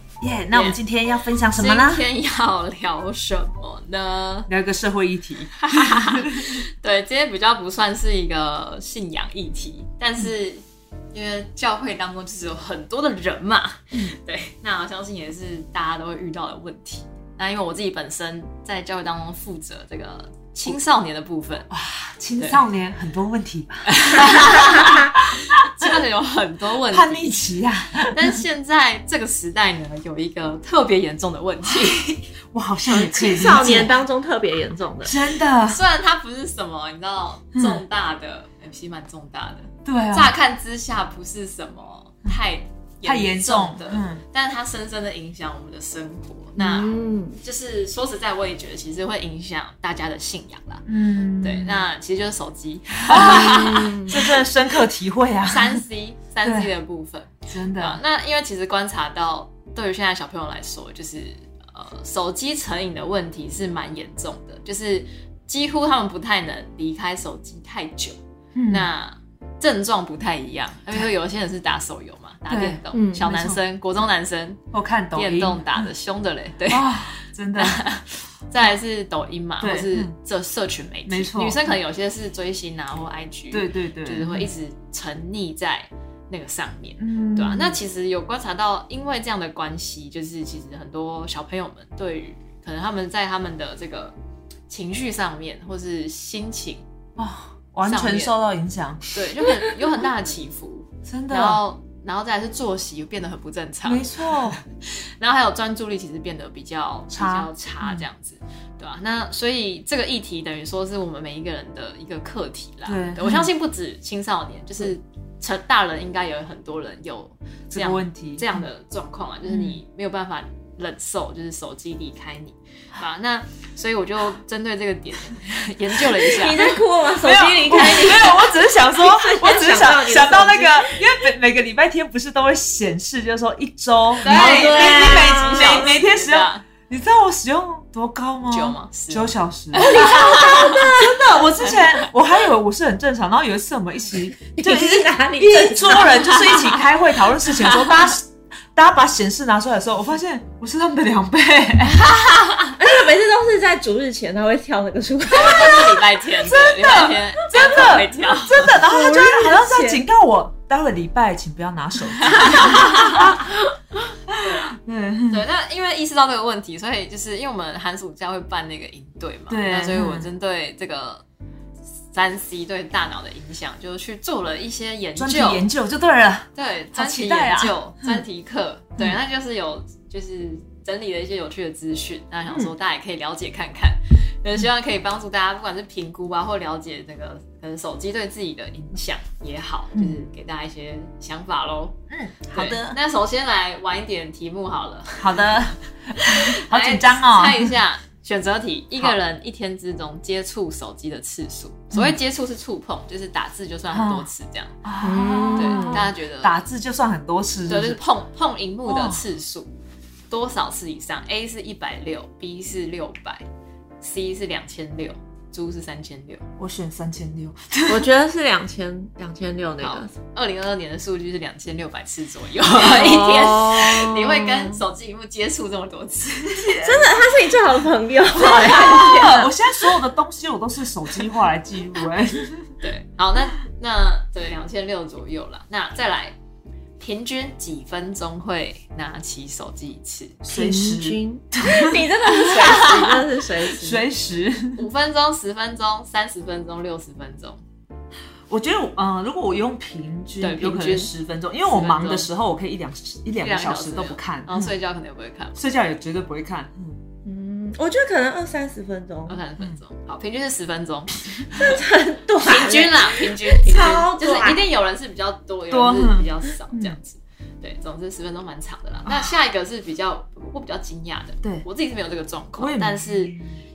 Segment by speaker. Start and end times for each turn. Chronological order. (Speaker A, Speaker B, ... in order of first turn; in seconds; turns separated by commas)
Speaker A: 0.2-2.0, Speaker B: 0.5-0.8, Speaker B: 1.5-4.5, Speaker A: 4.5-6.6, Speaker B: 5.6-10.6, Speaker B: 11.1-21.7, Speaker A: 21.7-25.0, Speaker B: 23.9-27.4, Speaker A: 26.9-28.4, Speaker B: 28.1-32.2, Speaker A: 32.5-34.0, Speaker B: 32.9-33.9, Speaker C: 33.1-35.2, Speaker A: 35.0-35.8, Speaker B: 35.6-50.8, Speaker A: 37.5-37.8, Speaker A: 39.8-40.3, Speaker A: 43.0-44.2, Speaker C: 46.6-47.4, Speaker A: 50.9-51.9, Speaker B: 51.4-54.4, Speaker A: 53.1-55.8, Speaker C: 53.3-54.2, Speaker B: 55.4-74.6, Speaker A: 56.4-56.7, Speaker A: 57.5-58.0, Speaker A: 68.5-68.9, Speaker A: 72.5-73.6, Speaker C: 72.9-73.3, Speaker A: 74.7-75.9, Speaker B: 75.1-94.2, Speaker A: 76.7-77.8, Speaker A: 79.6-80.1, Speaker A: 81.1-81.7, Speaker A: 83.5-84.5, Speaker A: 87.0-87.8, Speaker B: 94.7-96.8, Speaker A: 97.2-99.2, Speaker B: 97.8-98.3, Speaker B: 99.1-126.7, Speaker A: 101.0-101.6, Speaker A: 103.8-104.6, Speaker A: 107.1-108.0, Speaker A: 112.8-113.5, Speaker A: 117.7-118.6, Speaker A: 119.5-119.8, Speaker C: 126.2-131.0, Speaker A: 127.2-152.1, Speaker B: 134.2-136.7, Speaker C: 134.2-135.9, Speaker B: 138.5-142.1, Speaker C: 139.9-141.1, Speaker C: 144.6-146.6, Speaker B: 147.6-147.9, Speaker C: 152.7-155.9, Speaker B: 155.3-158.7, Speaker A: 155.6-163.4, Speaker C: 158.7-160.0, Speaker B: 162.2-163.3, Speaker A: 164.3-165.4, Speaker B: 164.4-164.8, Speaker B: 165.3-171.2, Speaker A: 169.5-170.3, Speaker B: 172.1-175.6, Speaker A: 175.2-178.2, Speaker B: 176.5-192.0, Speaker A: 192.1-193.0, Speaker B: 192.5-195.5, Speaker A: 195.2-197.7, Speaker B: 196.2-204.8, Speaker A: 203.9-204.3, Speaker A: 204.8-208.0, Speaker C: 205.0-206.1, Speaker B: 205.5-206.6, Speaker B: 207.7-209.7, Speaker A: 208.8-209.2, Speaker B: 210.3-213.4, Speaker B: 214.0-216.4, Speaker A: 216.6-218.1, Speaker C: 217.9-220.1, Speaker B: 219.8-226.7, Speaker C: 222.7-224.8, Speaker A: 226.4-227.3, Speaker C: 226.8-229.5, Speaker B: 228.3-229.2, Speaker A: 228.4-232.8, Speaker B: 232.8-236.3, Speaker B: 237.0-240.4, Speaker A: 240.4-242.0, Speaker C: 240.5-244.0, Speaker B: 242.6-243.2, Speaker A: 242.6-243.1, Speaker A: 243.7-244.8, Speaker B: 244.8-247.6, Speaker A: 248.5-254.7, Speaker B: 250.4-251.1, Speaker B: 251.7-252.3, Speaker B: 253.4-255.6, Speaker A: 255.6-257.0, Speaker C: 257.2-259.4, Speaker B: 259.3-261.4, Speaker C: 261.5-264.6, Speaker B: 262.4-273.3, Speaker A: 265.7-267.0, Speaker A: 269.1-269.3, Speaker A: 272.6-273.4